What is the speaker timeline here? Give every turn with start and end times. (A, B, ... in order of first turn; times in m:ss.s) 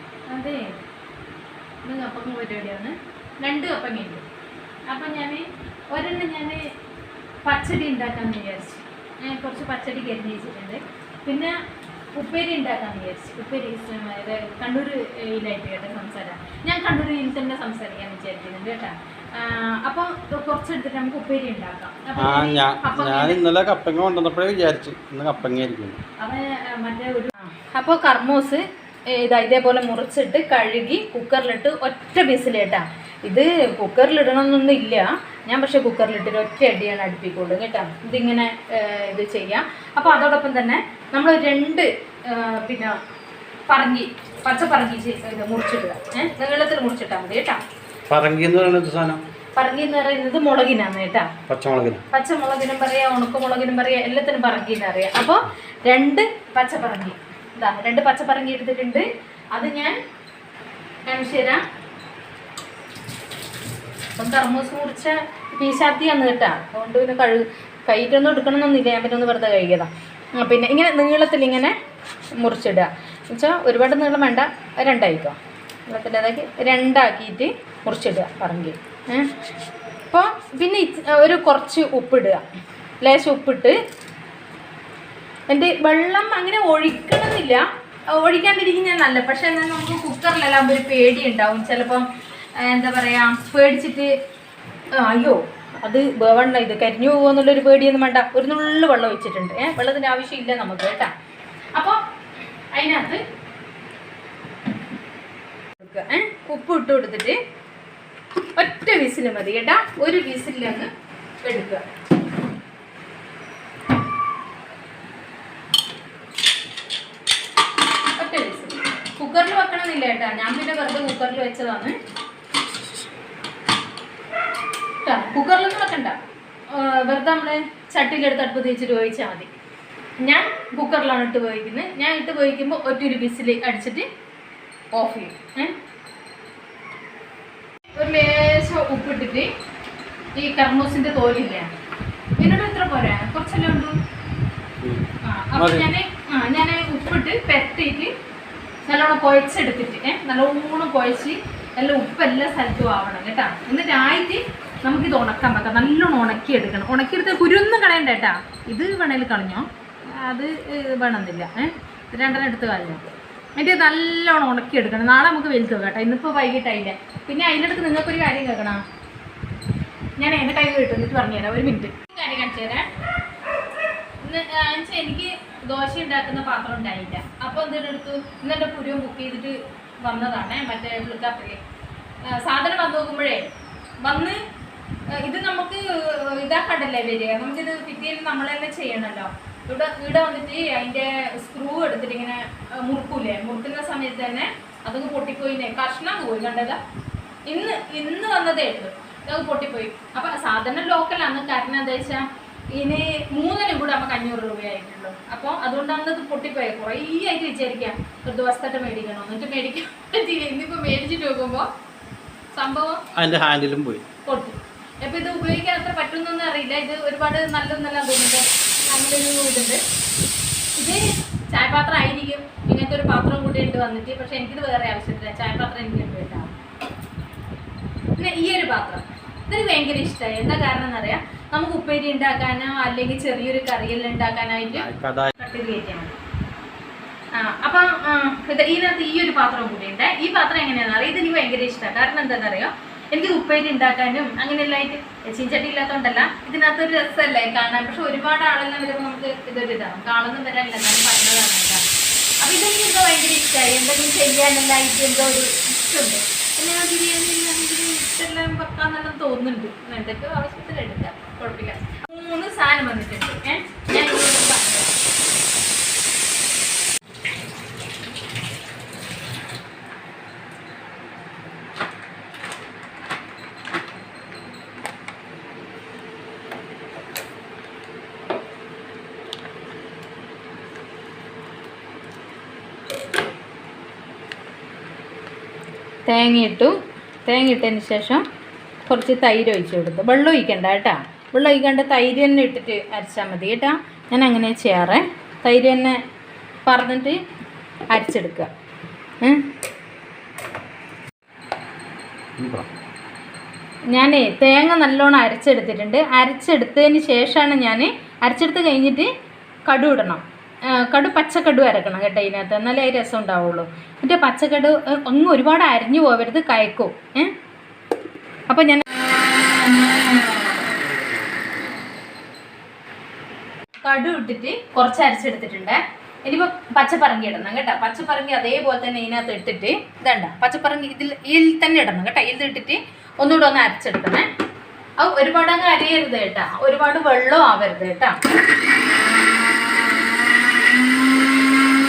0:00.3-0:00.7 A
0:01.8-0:04.2 A
0:04.9-0:06.6 A
0:07.4-0:11.6 A
0:12.1-0:23.4 A
0:22.2-0:26.0 B
0:26.2-0:28.6 A
0:29.1-0:42.9 A
0:43.7-0:47.6 A
0:48.1-0:49.2 B
0:49.6-0:51.3 A
0:51.5-0:52.0 B
0:52.1-1:00.0 A
1:01.1-1:01.6 A
1:04.2-1:11.7 A
1:12.4-1:19.3 A
1:20.1-1:22.4 A
1:23.0-1:23.8 A
1:25.5-1:32.0 A
1:32.6-1:34.1 A
1:35.0-1:41.1 A
1:42.7-1:43.2 A
1:45.8-1:47.4 A
1:48.6-1:50.9 A
1:51.4-1:51.8 A
1:58.2-2:02.0 A
2:05.0-2:06.2 A
2:06.7-2:09.5 A
2:10.2-2:14.1 A
2:15.0-2:15.8 A
2:18.0-2:19.5 A
2:20.4-2:21.7 A
2:22.4-2:23.9 A
2:25.2-2:28.1 A
2:25.6-2:25.9 B
2:28.9-2:43.0 A
2:43.6-2:48.8 A
2:50.2-2:52.9 A
2:54.2-3:01.6 A
3:02.3-3:03.5 A
3:04.0-3:04.4 A
3:05.1-3:16.8 A
3:17.5-3:31.7 A
3:32.6-3:33.0 A
3:33.2-3:34.0 B
3:34.3-3:39.8 A
3:40.8-3:46.5 A
3:48.2-3:56.2 A
3:54.8-3:55.3 B
3:57.4-4:11.8 A
4:12.4-4:24.9 A
4:46.1-4:46.8 A
4:47.3-4:48.2 A
4:48.9-4:56.0 A
4:56.7-4:57.2 A
4:57.9-4:58.5 A
5:02.4-5:02.7 B
5:03.9-5:09.1 A
5:09.7-5:17.3 A
5:18.5-5:18.8 A
5:23.8-5:34.3 A
5:35.0-5:38.2 A